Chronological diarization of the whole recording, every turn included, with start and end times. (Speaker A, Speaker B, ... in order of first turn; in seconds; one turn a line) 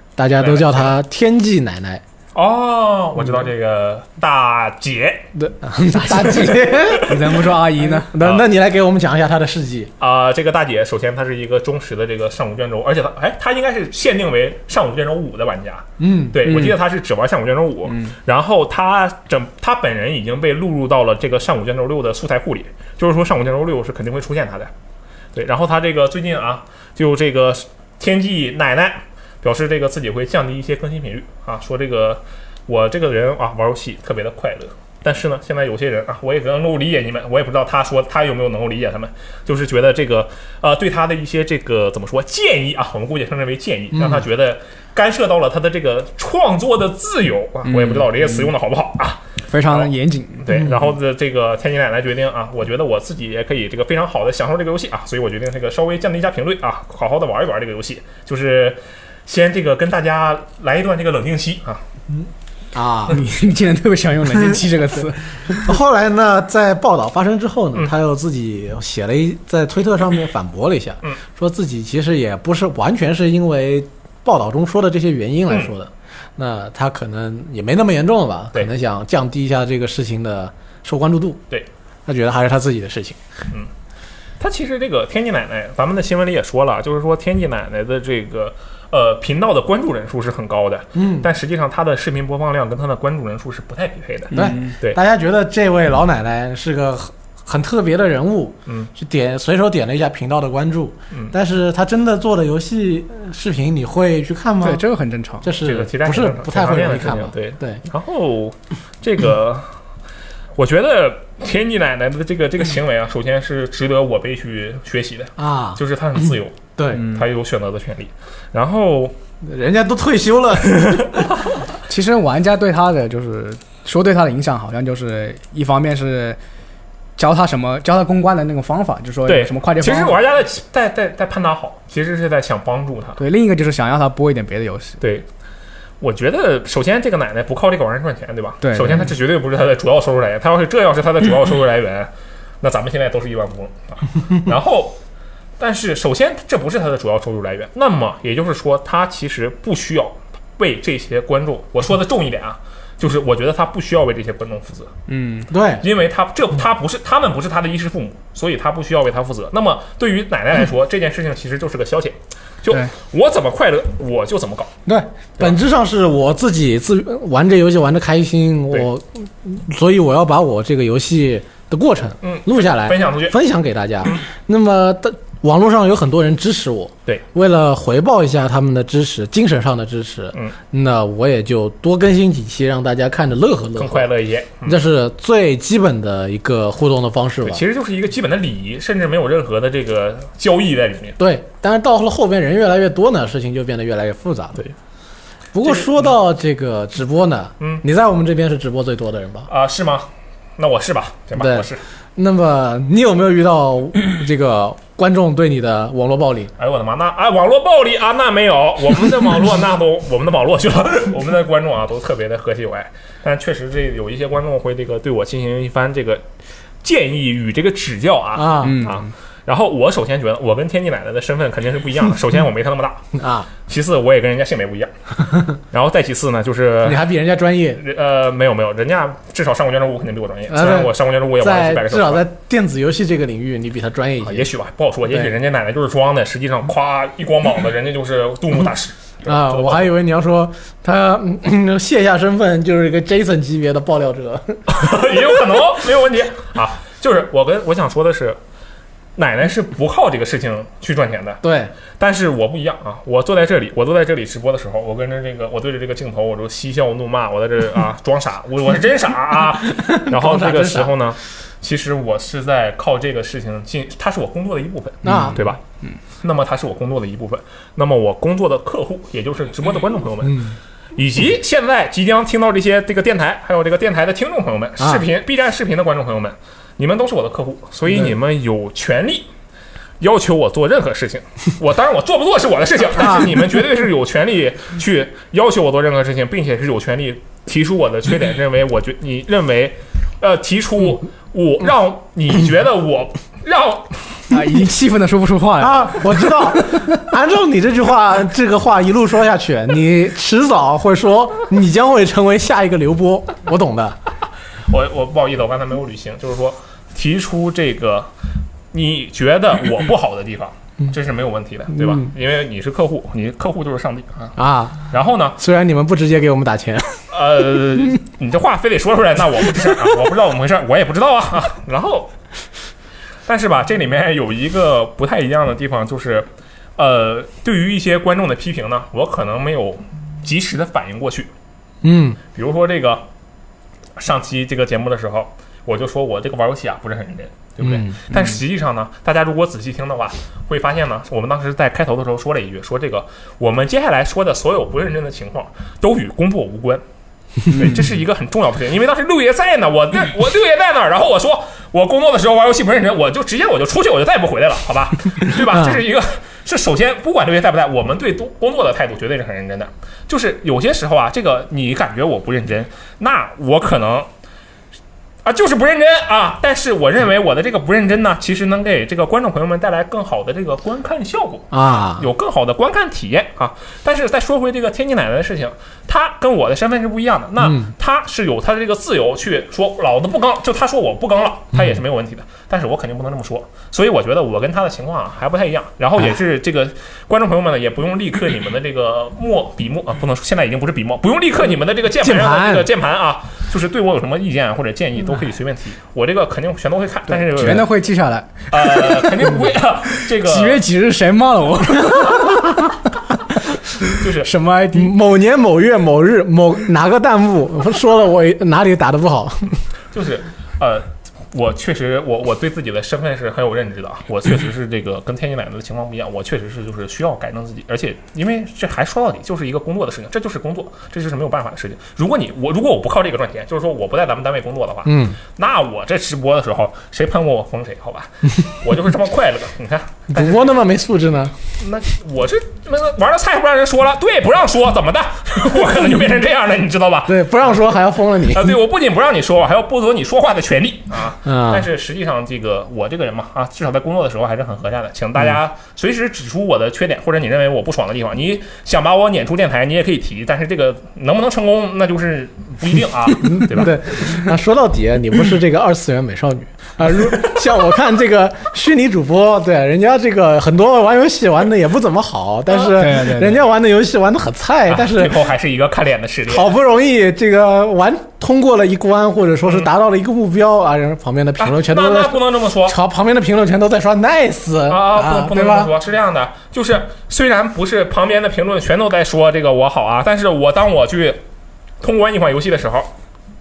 Speaker A: 0.2-2.0
Speaker B: 0.4-0.9
Speaker B: 2.3-5.3
Speaker A: 5.4-7.2
Speaker B: 5.9-7.3
Speaker C: 7.0-8.1
Speaker A: 7.9-9.9
Speaker B: 8.2-8.5
Speaker B: 10.0-24.7
Speaker A: 16.0-16.4
Speaker C: 16.4-16.8
Speaker B: 25.3-49.9
Speaker A: 43.9-44.2
Speaker C: 47.7-48.5
Speaker C: 49.5-50.5
Speaker B: 50.4-61.8
Speaker A: 62.7-63.2
Speaker C: 63.1-65.7
Speaker A: 65.5-81.4
Speaker A: 82.1-83.2
Speaker B: 84.4-95.0
Speaker A: 91.0-91.3
Speaker C: 94.3-94.8
Speaker A: 94.3-104.8
Speaker C: 104.6-105.5
Speaker A: 105.4-107.8
Speaker B: 105.6-109.7
Speaker B: 110.6-119.2
Speaker A: 115.4-115.8
Speaker A: 116.8-117.1
Speaker A: 119.4-121.3
Speaker B: 120.7-121.3
Speaker C: 121.9-126.4
Speaker C: 127.2-130.2
Speaker B: 129.3-133.2
Speaker C: 133.2-135.0
Speaker B: 135.0-135.3
Speaker B: 136.0-145.0
Speaker C: 138.6-139.1
Speaker B: 145.6-154.9
Speaker C: 155.1-155.5
Speaker A: 155.5-155.9
Speaker B: 155.8-164.7
Speaker A: 164.9-184.1
Speaker B: 172.2-173.4
Speaker B: 183.8-184.8
Speaker A: 184.7-187.6
Speaker B: 187.4-191.2
Speaker A: 191.2-194.6
Speaker A: 195.6-199.5
Speaker B: 195.6-196.0
Speaker B: 199.5-201.8
Speaker A: 201.3-206.5
Speaker B: 206.6-216.2
Speaker B: 216.8-223.1
Speaker A: 218.3-218.8
Speaker C: 218.6-219.1
Speaker A: 223.2-223.5
Speaker B: 223.7-224.9
Speaker B: 225.5-227.0
Speaker A: 226.8-227.8
Speaker B: 227.8-232.2
Speaker A: 230.5-234.5
Speaker B: 234.2-239.9
Speaker A: 235.1-235.3
Speaker A: 239.2-245.6
Speaker B: 244.7-248.4
Speaker B: 249.2-251.4
Speaker A: 251.4-251.7
Speaker B: 251.9-265.6
Speaker A: 259.7-260.9
Speaker A: 265.1-265.4
Speaker B: 266.2-279.3
Speaker A: 270.2-270.6
Speaker A: 274.8-275.1
Speaker B: 280.0-294.3
Speaker C: 294.3-296.9
Speaker A: 295.6-304.0
Speaker B: 304.7-308.1
Speaker B: 308.7-314.4
Speaker A: 314.4-317.0
Speaker B: 314.9-315.4
Speaker B: 317.1-322.1
Speaker B: 323.3-331.3
Speaker A: 331.8-332.2
Speaker B: 332.3-333.1
Speaker B: 334.0-346.8
Speaker A: 337.6-338.0
Speaker B: 347.4-364.1
Speaker A: 355.5-355.8
Speaker B: 365.2-397.7
Speaker A: 371.5-372.1
Speaker A: 377.4-377.7
Speaker A: 392.0-392.7
Speaker C: 397.1-399.4
Speaker B: 398.5-400.6
Speaker C: 400.0-402.7
Speaker C: 403.8-404.9
Speaker B: 404.0-404.3
Speaker A: 404.7-409.6
Speaker B: 409.9-430.6
Speaker A: 424.9-425.2
Speaker A: 430.1-431.4
Speaker B: 431.6-437.3
Speaker A: 437.1-438.6
Speaker B: 438.2-454.0
Speaker A: 441.2-441.7
Speaker A: 453.2-465.3
Speaker B: 462.6-462.9
Speaker C: 462.7-463.4
Speaker B: 464.7-466.5
Speaker A: 466.3-475.7
Speaker B: 471.4-472.8
Speaker B: 474.7-481.2
Speaker B: 481.8-482.9